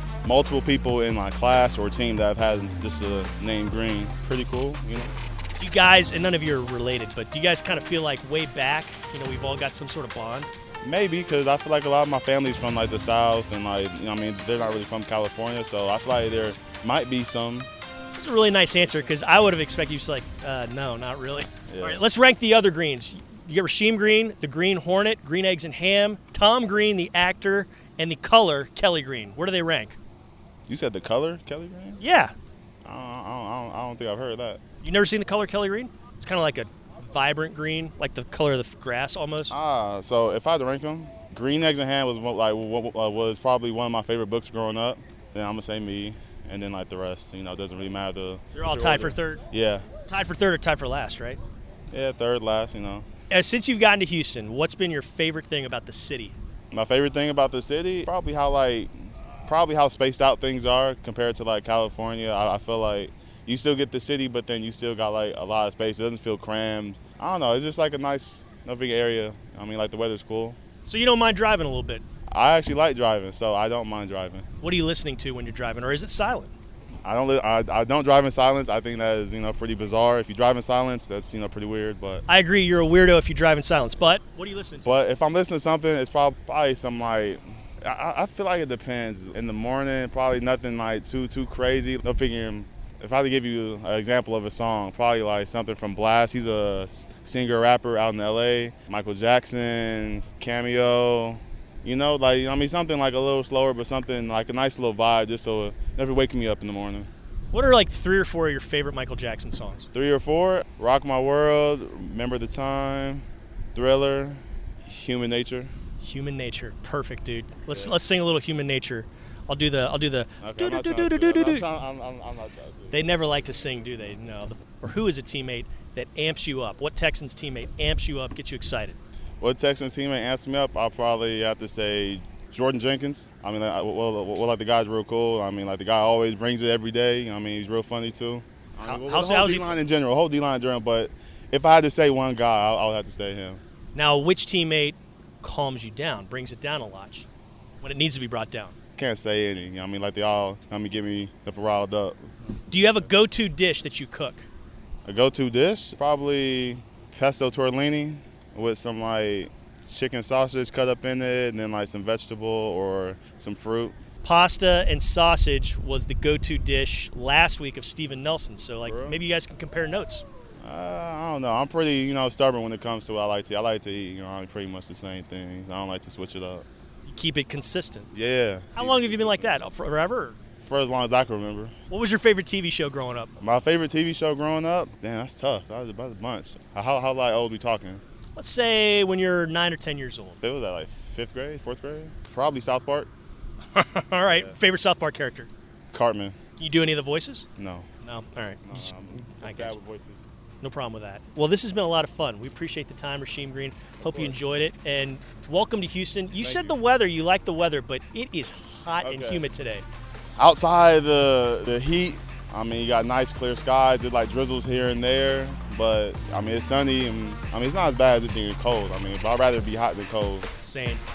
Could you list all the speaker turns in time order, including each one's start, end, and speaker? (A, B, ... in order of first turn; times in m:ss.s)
0:00.2-0:05.2 A
0:05.6-0:10.5 B
0:10.8-0:17.7 A
0:18.1-0:30.0 B
0:21.7-0:22.0 A
0:30.7-0:32.0 A
0:32.0-0:32.3 B
0:32.8-0:34.6 A
0:34.8-0:39.6 B
0:39.5-0:49.9 A
0:48.6-0:49.4 B
0:50.0-0:51.4 B
0:51.9-0:53.0 A
0:53.3-0:56.3 B
0:56.7-0:58.9 A
0:59.4-1:10.6 A
1:10.8-1:12.0 B
1:12.3-1:14.4 A
1:14.6-1:16.5 B
1:17.0-1:22.2 A
1:22.3-1:25.0 B
1:24.8-1:47.1 A
1:47.5-1:49.9 B
1:49.9-1:55.7 A
1:56.0-2:01.7 B
2:00.4-2:03.0 A
2:02.9-2:09.0 B
2:09.4-2:23.6 A
2:18.8-2:19.8 B
2:23.9-2:27.3 B
2:27.8-2:28.7 B
2:29.0-2:32.2 A
2:32.7-2:34.5 B
2:35.0-2:44.0 A
2:44.2-2:50.2 B
2:48.8-2:49.2 A
2:50.6-2:56.6 A
2:57.1-2:58.1 B
2:58.1-2:59.5 A
2:58.7-3:00.4 B
3:00.6-3:01.7 A
3:01.9-3:03.3 B
3:03.4-3:08.0 A
3:08.4-3:10.4 B
3:10.4-3:13.1 A
3:13.7-3:15.5 B
3:14.2-3:14.6 A
3:15.9-3:16.4 A
3:16.6-3:17.5 B
3:17.6-3:17.9 A
3:18.0-3:19.7 B
3:18.6-3:20.3 A
3:20.6-3:29.8 B
3:24.0-3:24.4 A
3:26.4-3:26.8 A
3:29.0-3:29.5 A
3:30.4-3:40.5 A
3:40.6-3:41.0 B